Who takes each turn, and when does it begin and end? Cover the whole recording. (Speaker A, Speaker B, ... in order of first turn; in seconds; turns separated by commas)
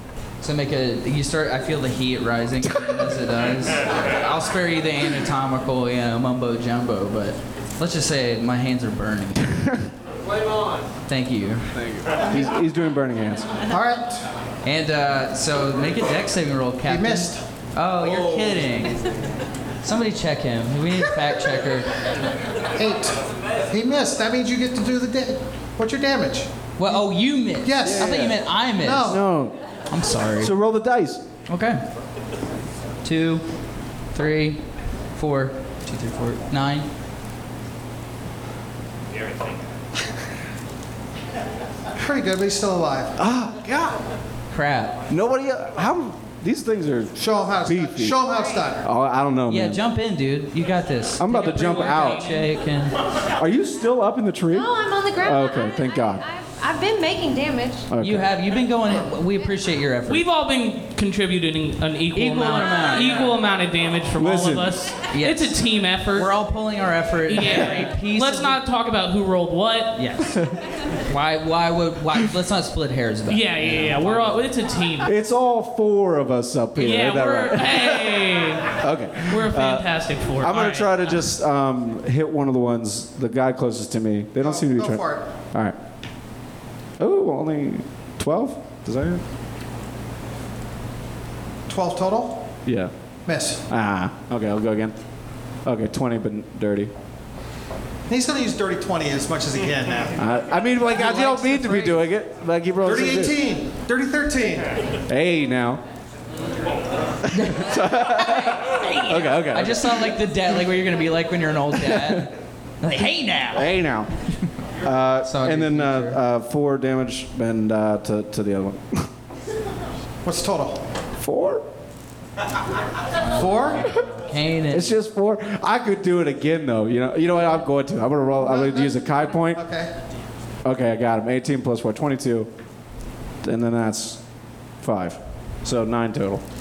Speaker A: 0.4-9.6, Speaker A: 11.1-11.7, Speaker B: 11.7-13.5, Speaker C: 13.7-14.2, Speaker A: 14.6-19.0, Speaker C: 16.9-17.4, Speaker A: 19.8-21.9, Speaker C: 22.8-23.2, Speaker C: 23.7-27.1, Speaker A: 26.8-29.2, Speaker C: 27.6-29.2, Speaker B: 27.8-28.4, Speaker B: 29.0-29.6, Speaker A: 29.9-30.5, Speaker B: 30.4-31.2, Speaker A: 31.5-31.8, Speaker A: 33.0-33.5, Speaker A: 34.1-34.6, Speaker A: 35.2-36.9, Speaker C: 42.0-43.2, Speaker B: 43.2-44.0, Speaker A: 44.5-45.0, Speaker B: 45.1-48.2, Speaker C: 47.2-48.9, Speaker D: 48.3-48.7, Speaker B: 48.8-49.8, Speaker A: 49.5-53.0, Speaker B: 51.2-52.2, Speaker E: 51.3-52.5, Speaker B: 53.4-56.2, Speaker D: 54.5-57.9, Speaker B: 57.9-58.3, Speaker A: 58.0-60.2, Speaker E: 60.1-66.3, Speaker A: 62.1-63.4, Speaker B: 64.2-64.8, Speaker A: 65.1-65.5, Speaker A: 66.1-68.6, Speaker E: 67.3-70.0, Speaker A: 70.0-70.3, Speaker A: 71.1-74.4, Speaker E: 73.3-75.1, Speaker B: 75.0-79.9, Speaker E: 76.8-78.7, Speaker E: 79.3-81.2, Speaker B: 80.4-85.8, Speaker C: 84.4-85.3, Speaker B: 87.0-89.2, Speaker C: 91.7-92.5, Speaker B: 92.7-92.9, Speaker C: 93.3-93.6, Speaker B: 93.7-95.0, Speaker B: 95.7-96.9, Speaker C: 98.1-100.2, Speaker B: 100.2-103.4, Speaker A: 101.0-101.8, Speaker C: 101.1-101.9, Speaker C: 102.8-104.8, Speaker B: 105.1-105.8, Speaker A: 107.3-113.7, Speaker B: 107.3-110.3, Speaker B: 111.7-112.3, Speaker B: 113.5-114.1, Speaker B: 114.8-119.1, Speaker A: 115.2-116.2, Speaker C: 120.2-120.8, Speaker B: 121.2-121.7, Speaker A: 123.3-125.0, Speaker C: 123.3-123.9, Speaker B: 124.7-129.6, Speaker C: 128.4-129.9, Speaker B: 130.6-132.5, Speaker B: 133.4-134.2, Speaker B: 134.8-136.4